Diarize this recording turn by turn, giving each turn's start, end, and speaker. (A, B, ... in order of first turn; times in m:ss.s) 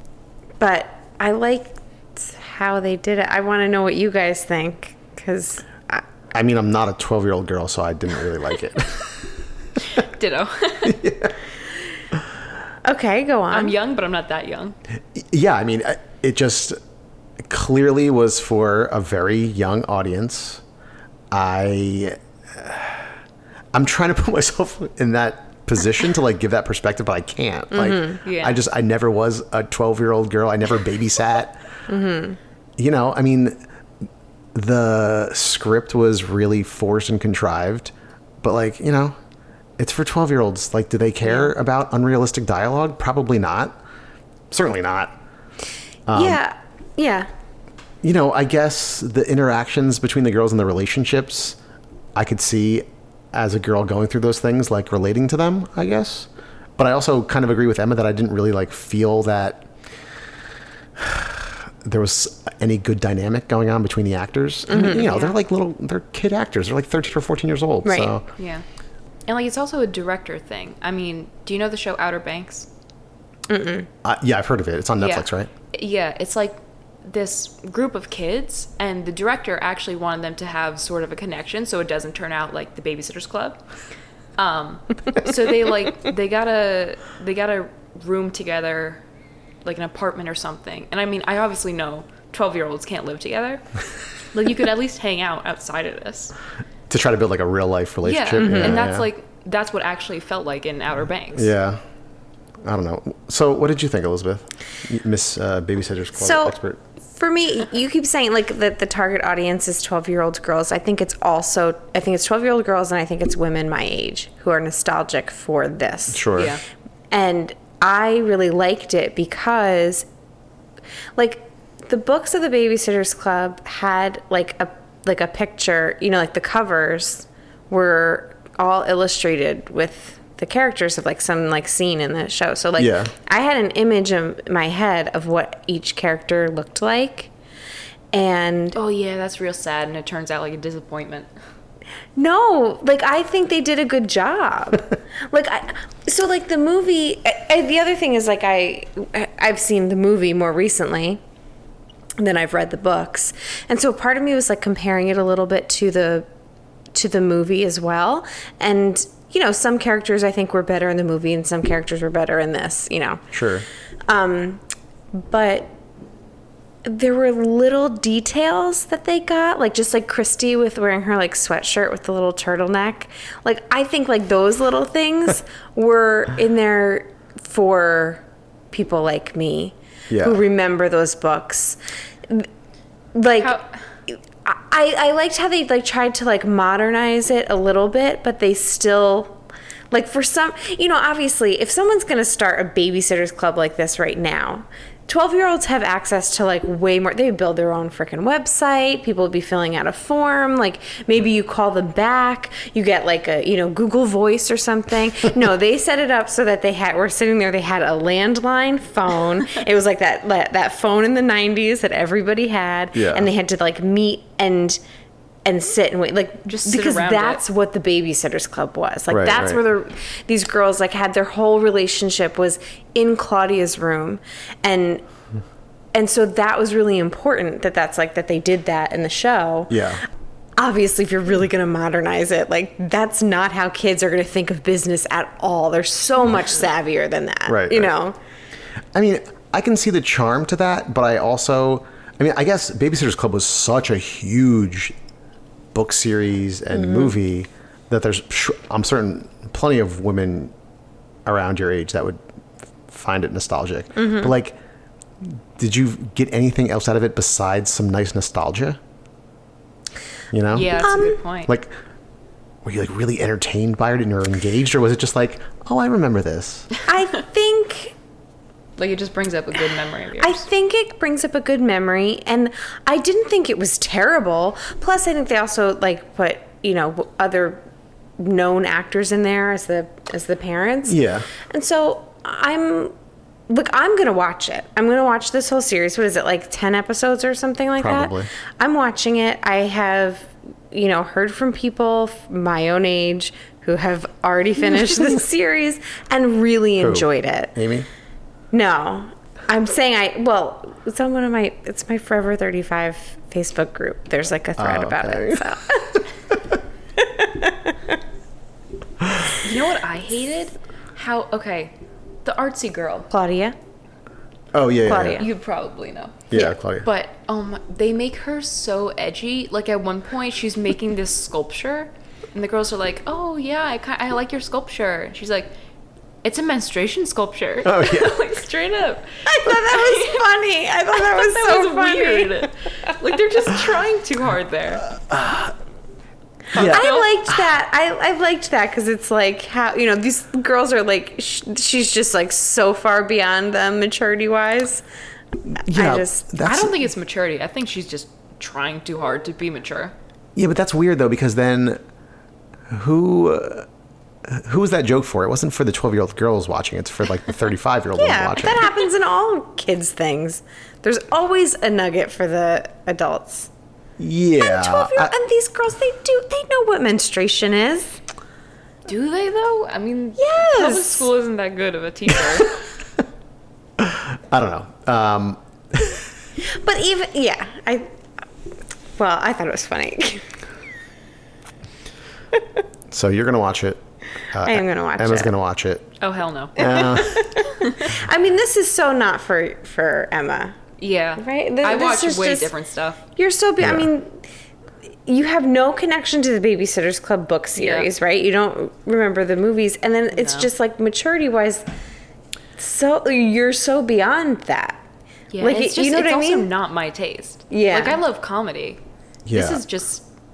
0:00.6-0:06.0 A
0:06.3-0:09.2 B
0:09.9-0:11.0 C
0:10.8-0:11.3 B
0:12.8-0:13.7 A
0:13.5-0:14.8 C
0:15.1-0:16.8 B
0:17.4-0:20.6 B
0:21.3-0:23.1 B
0:23.7-0:31.6 B
0:27.8-0:28.1 A
0:28.2-0:28.6 C
0:31.9-0:32.4 A
0:32.8-0:33.6 B
0:34.5-0:39.2 B
0:39.8-0:43.8 B
0:44.5-0:45.2 B
0:46.1-0:46.4 B
0:46.1-0:47.3 A
0:48.0-0:51.6 B
0:52.1-0:59.7 B
1:01.0-1:08.2 B
1:04.7-1:05.1 A
1:04.8-1:05.3 C
1:07.8-1:08.2 A
1:08.4-1:08.6 C
1:09.3-1:12.7 C
1:13.5-1:13.9 A
1:14.0-1:15.5 B
1:15.0-1:23.6 C
1:24.4-1:29.0 C
1:29.6-1:33.6 C
1:34.3-1:36.3 C
1:36.9-1:39.1 B
1:38.0-1:41.5 C
1:38.4-1:38.8 A
1:41.3-1:41.8 B
1:42.6-1:46.8 B
1:46.2-1:46.6 A
1:47.1-1:56.3 A
1:56.1-1:56.6 B
1:56.3-1:56.6 C
1:57.1-2:00.0 A
2:01.2-2:17.3 A
2:12.8-2:13.1 B
2:18.1-2:18.8 A
2:18.7-2:21.3 C
2:22.2-2:31.2 A
2:32.2-2:36.3 A
2:36.9-2:43.2 A
2:43.3-2:43.6 B
2:44.1-2:44.6 A
2:45.1-2:45.7 A
2:46.8-3:02.5 A
3:00.1-3:00.4 B
3:03.1-3:09.4 A
3:03.4-3:03.7 C
3:09.9-3:34.8 A
3:32.9-3:33.3 B
3:35.4-3:45.0 A
3:36.5-3:37.4 C
3:39.1-3:39.6 B
3:45.9-3:49.8 A
3:49.7-3:50.0 B
3:50.6-3:58.2 A
3:57.5-3:57.9 B
3:58.9-4:04.9 B
4:05.7-4:10.5 B
4:06.7-4:07.1 A
4:11.2-4:12.2 B
4:12.9-4:14.6 B
4:14.0-4:14.3 A
4:15.2-4:18.8 B
4:20.3-4:20.8 B
4:20.5-4:21.5 C
4:20.8-4:21.2 A
4:21.4-4:21.7 B
4:22.6-4:26.7 B
4:26.8-4:27.9 A
4:28.8-4:30.4 C
4:30.2-4:37.6 A
4:38.2-4:42.9 A
4:40.9-4:41.3 B
4:43.5-4:57.5 A
4:47.8-4:48.3 B
4:56.8-4:57.9 B
4:58.5-5:06.0 A
5:04.6-5:05.5 B
5:07.0-5:07.8 A
5:09.0-5:09.4 B
5:09.4-5:13.1 C
5:13.1-5:13.6 A
5:14.5-5:15.2 B
5:14.8-5:15.3 A
5:15.0-5:25.5 C
5:16.3-5:16.9 B
5:26.2-5:30.3 C
5:27.6-5:28.2 B
5:29.2-5:32.5 A
5:30.9-5:34.9 C
5:35.0-5:35.5 B
5:36.5-5:36.8 B
5:36.5-5:37.1 C
5:36.5-5:44.8 A
5:45.5-5:46.9 B
5:45.7-5:46.3 A
5:46.4-5:49.9 C
5:50.4-5:51.8 B
5:52.7-5:53.7 B
5:54.2-5:58.7 B
5:58.0-6:03.5 A
6:04.0-6:05.1 B
6:04.4-6:08.0 A
6:08.9-6:12.6 C
6:10.2-6:11.1 A
6:13.8-6:16.0 B
6:16.5-6:17.9 A
6:19.0-6:20.2 A
6:22.9-6:25.9 B
6:24.4-6:25.3 A
6:26.0-6:26.7 C
6:26.6-6:27.3 B
6:26.6-6:30.6 A
6:30.8-6:33.0 C
6:31.2-6:32.5 A
6:33.1-6:34.2 A
6:33.6-6:33.9 B
6:35.0-6:41.6 A
6:37.6-6:37.9 C
6:40.1-6:40.5 C
6:42.6-6:44.8 A
6:45.3-6:48.8 C
6:45.4-6:46.5 A
6:47.5-6:48.0 A
6:49.2-6:49.6 B
6:49.3-6:50.1 C